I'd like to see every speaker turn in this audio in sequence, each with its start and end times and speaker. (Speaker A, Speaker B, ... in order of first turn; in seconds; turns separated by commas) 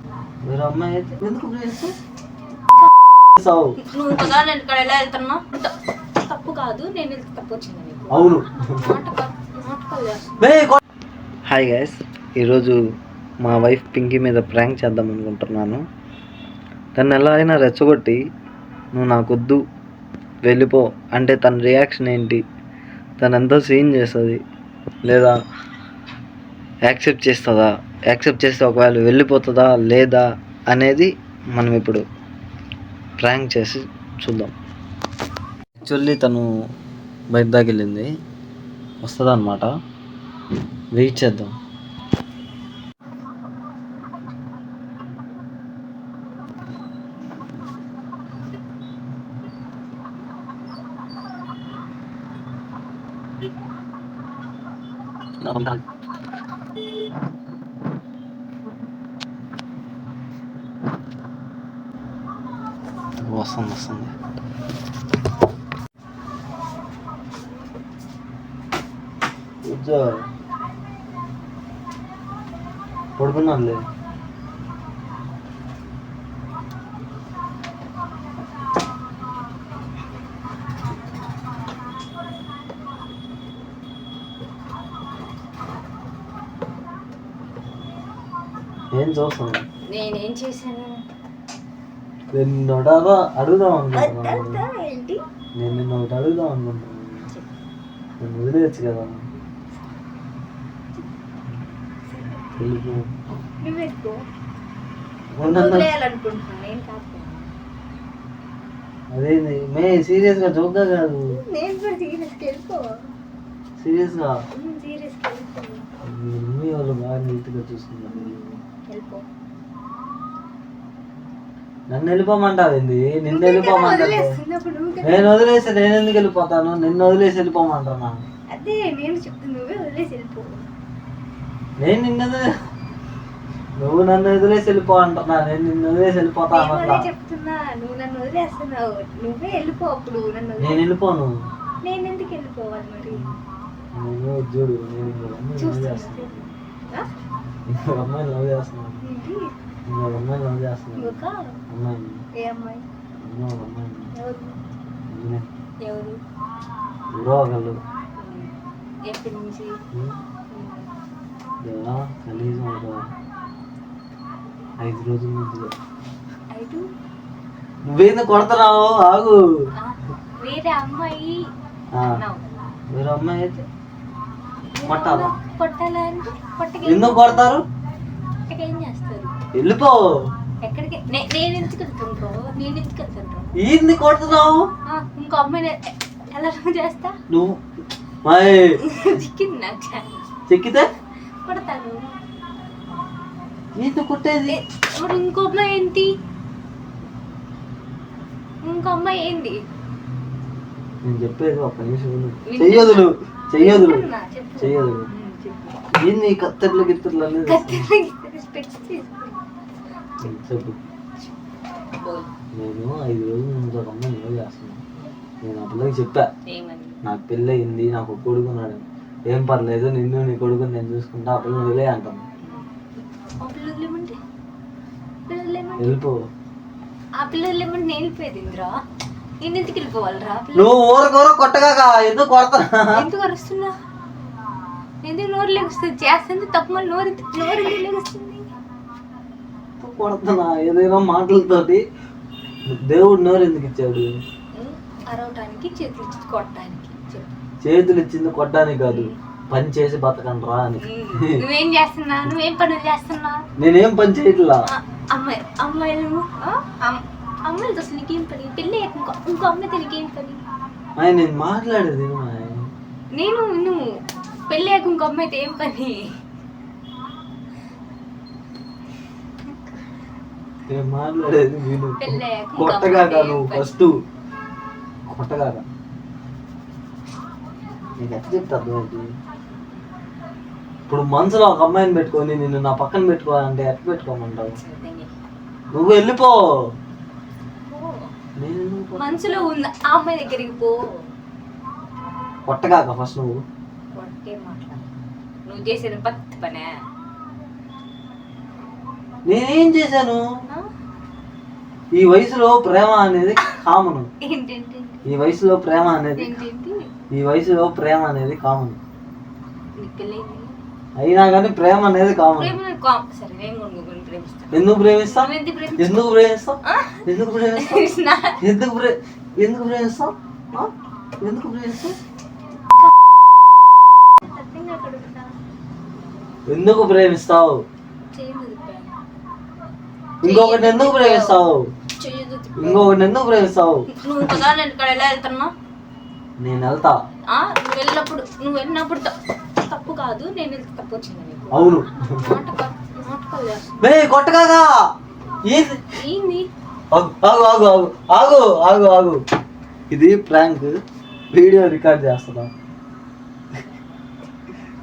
Speaker A: 0.4-1.9, Speaker A: 3.4-3.8, Speaker B: 3.8-10.2, Speaker A: 8.1-8.8, Speaker A: 10.4-10.8, Speaker A: 11.5-12.8, Speaker A: 13.4-15.8, Speaker A: 17.0-18.2, Speaker A: 18.9-19.6, Speaker A: 20.5-22.4, Speaker A: 23.2-24.4, Speaker A: 25.1-25.4, Speaker A: 26.9-32.0, Speaker A: 33.2-34.5, Speaker A: 35.8-36.5, Speaker A: 37.3-38.1, Speaker A: 39.0-39.7, Speaker A: 41.0-41.5, Speaker A: 55.4-55.8, Speaker A: 63.2-64.1, Speaker A: 69.6-70.3, Speaker A: 73.2-73.8, Speaker A: 89.0-89.6, Speaker B: 89.9-91.0, Speaker A: 92.3-94.6, Speaker B: 93.9-95.2, Speaker A: 95.6-97.3, Speaker A: 98.2-99.2, Speaker B: 102.1-102.5, Speaker A: 102.6-103.1, Speaker B: 103.6-104.2, Speaker A: 105.3-105.9, Speaker B: 105.4-107.5, Speaker A: 109.1-111.4, Speaker B: 111.3-113.0, Speaker A: 113.8-114.4, Speaker B: 114.5-115.9, Speaker A: 116.0-118.4, Speaker B: 118.1-119.2, Speaker A: 121.9-124.4, Speaker B: 123.3-125.4, Speaker A: 125.0-128.2, Speaker B: 128.5-130.7, Speaker A: 131.8-132.5, Speaker A: 133.8-137.1, Speaker B: 136.5-140.8, Speaker A: 140.6-141.3, Speaker B: 141.8-143.2, Speaker A: 143.9-146.6, Speaker B: 145.6-147.1, Speaker A: 147.7-149.0, Speaker B: 149.0-149.5, Speaker A: 149.9-151.2, Speaker B: 151.0-151.4, Speaker A: 151.7-152.2, Speaker B: 152.4-152.8, Speaker A: 153.2-154.1, Speaker B: 154.1-154.6, Speaker A: 155.1-155.5, Speaker B: 155.8-156.2, Speaker A: 157.1-157.8, Speaker B: 158.2-158.5, Speaker B: 159.1-159.8, Speaker A: 159.9-160.2, Speaker B: 160.5-160.9, Speaker A: 161.6-163.1, Speaker A: 164.8-165.7, Speaker B: 166.5-166.9, Speaker A: 167.9-169.4, Speaker B: 169.8-171.5, Speaker B: 172.1-172.7, Speaker A: 172.9-173.7, Speaker B: 174.8-177.6, Speaker A: 174.8-175.3, Speaker A: 176.8-177.6, Speaker B: 178.5-179.3, Speaker A: 179.6-180.0, Speaker B: 180.6-183.6, Speaker A: 183.6-184.7, Speaker B: 184.9-187.1, Speaker A: 187.3-187.6, Speaker A: 188.2-188.8, Speaker B: 188.8-190.3, Speaker A: 190.5-190.9, Speaker B: 191.5-192.2, Speaker A: 193.8-194.6, Speaker B: 194.5-196.1, Speaker B: 198.6-199.6, Speaker A: 201.0-204.1, Speaker B: 202.5-205.8, Speaker A: 204.6-205.1, Speaker A: 205.9-207.9, Speaker B: 207.4-209.4, Speaker A: 210.2-210.8, Speaker B: 212.0-212.3, Speaker A: 212.6-214.8, Speaker A: 215.4-216.3, Speaker B: 216.5-217.0, Speaker A: 217.0-222.2, Speaker B: 222.4-222.7, Speaker B: 223.4-224.2, Speaker B: 225.3-226.0, Speaker A: 225.8-226.2, Speaker B: 227.2-228.7, Speaker B: 229.4-230.8, Speaker A: 230.6-233.1, Speaker B: 232.9-233.7, Speaker B: 235.0-238.5, Speaker A: 239.8-241.8, Speaker A: 242.7-244.1, Speaker B: 244.6-247.3, Speaker A: 247.6-251.4, Speaker B: 248.9-249.2, Speaker B: 250.8-253.5, Speaker A: 253.6-254.6, Speaker B: 254.7-260.4, Speaker A: 261.0-262.7, Speaker B: 263.1-263.8, Speaker B: 264.5-266.2, Speaker A: 270.7-274.0, Speaker B: 272.0-273.8, Speaker A: 275.1-275.6, Speaker A: 278.0-279.1, Speaker A: 280.9-284.6, Speaker B: 284.6-285.1, Speaker A: 285.7-286.4, Speaker B: 287.7-288.1, Speaker A: 288.4-289.4, Speaker B: 288.9-290.8, Speaker A: 292.5-293.4, Speaker B: 293.9-294.8, Speaker B: 295.5-296.7, Speaker A: 299.3-300.2, Speaker A: 301.9-304.1, Speaker B: 304.2-305.1, Speaker A: 305.1-306.3, Speaker B: 306.2-306.9, Speaker A: 307.1-308.8, Speaker B: 309.8-310.6, Speaker A: 311.0-312.6, Speaker B: 312.1-316.0, Speaker A: 314.5-320.7, Speaker B: 316.6-318.4, Speaker A: 321.2-322.0, Speaker B: 324.2-325.4, Speaker A: 326.5-327.6, Speaker B: 328.1-329.0, Speaker A: 330.2-331.6, Speaker B: 330.2-331.4, Speaker B: 332.0-333.0, Speaker A: 332.6-334.4, Speaker B: 333.9-335.5, Speaker A: 336.4-337.0, Speaker B: 337.3-343.7, Speaker A: 341.5-342.3, Speaker A: 343.8-344.7, Speaker A: 345.5-345.8, Speaker B: 346.0-346.5, Speaker A: 346.9-349.2, Speaker A: 349.9-350.8, Speaker A: 351.3-352.5